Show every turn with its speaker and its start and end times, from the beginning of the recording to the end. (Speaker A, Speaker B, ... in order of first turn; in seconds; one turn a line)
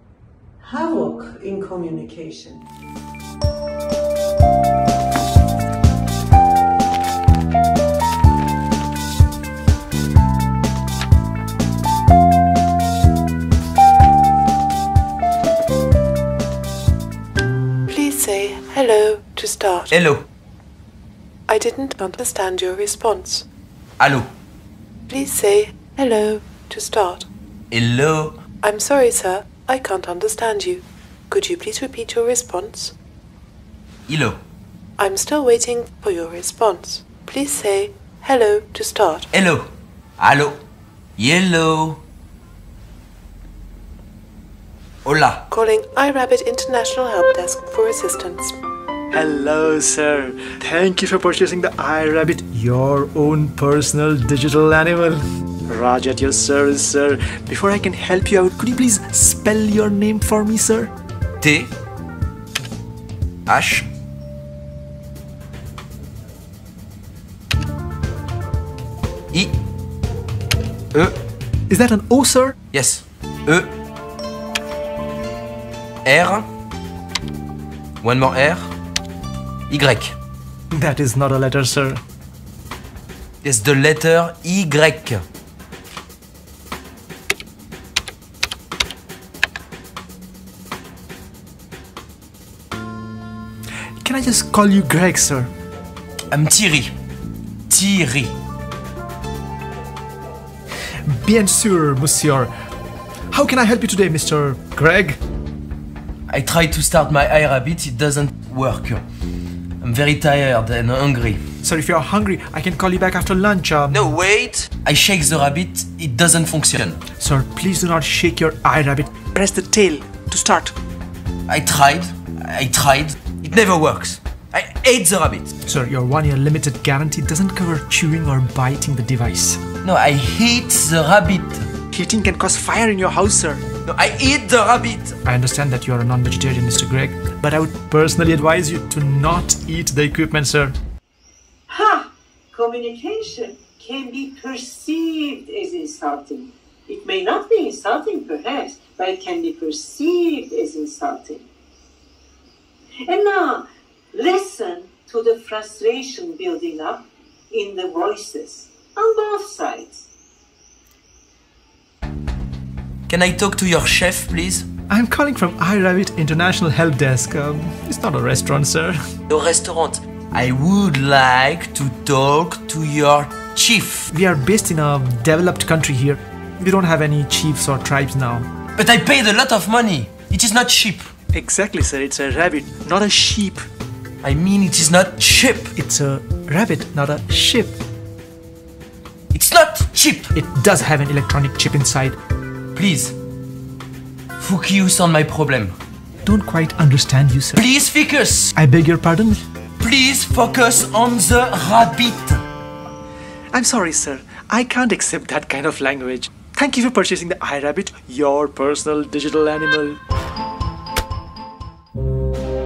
Speaker A: 0.6-2.6
Speaker A: 17.9-19.9
Speaker B: 19.9-20.3
Speaker A: 21.5-23.5
Speaker B: 24.0-24.3
Speaker A: 25.1-27.3
Speaker B: 27.7-28.4
Speaker A: 28.6-32.9
Speaker B: 34.1-34.4
Speaker A: 35.0-39.3
Speaker B: 39.3-40.6
Speaker B: 41.2-42.0
Speaker B: 45.0-45.5
Speaker A: 45.5-48.5
Speaker C: 49.1-60.9
Speaker B: 61.4-61.7
Speaker B: 63.5-63.9
Speaker C: 71.7-72.5
Speaker B: 72.7-73.7
Speaker B: 76.0-76.5
Speaker B: 78.0-78.7
Speaker B: 79.7-80.1
Speaker C: 80.7-82.0
Speaker B: 83.4-85.2
Speaker C: 94.0-95.5
Speaker B: 96.3-96.9
Speaker B: 97.7-98.3
Speaker C: 101.0-102.5
Speaker C: 103.3-105.2
Speaker B: 106.3-109.0
Speaker B: 109.8-111.4
Speaker C: 111.6-114.0
Speaker B: 113.9-117.0
Speaker C: 117.2-120.8
Speaker B: 121.5-125.5
Speaker C: 125.7-129.6
Speaker B: 129.8-131.7
Speaker C: 131.9-133.6
Speaker B: 133.8-135.2
Speaker C: 135.2-140.8
Speaker D: 141.7-151.4
Speaker D: 153.1-160.0
Speaker B: 163.1-164.7
Speaker C: 164.9-169.0
Speaker B: 169.3-174.1
Speaker C: 174.1-178.5
Speaker B: 178.8-181.1
Speaker C: 181.3-183.6
Speaker B: 184.2-185.7
Speaker C: 185.8-187.8
Speaker B: 189.3-190.3
Speaker C: 190.3-192.2
Speaker B: 192.7-193.1
Speaker B: 194.4-195.7
Speaker C: 196.2-197.6
Speaker B: 197.6-198.5
Speaker C: 198.5-199.4
Speaker B: 199.8-202.4
Speaker C: 203.5-210.0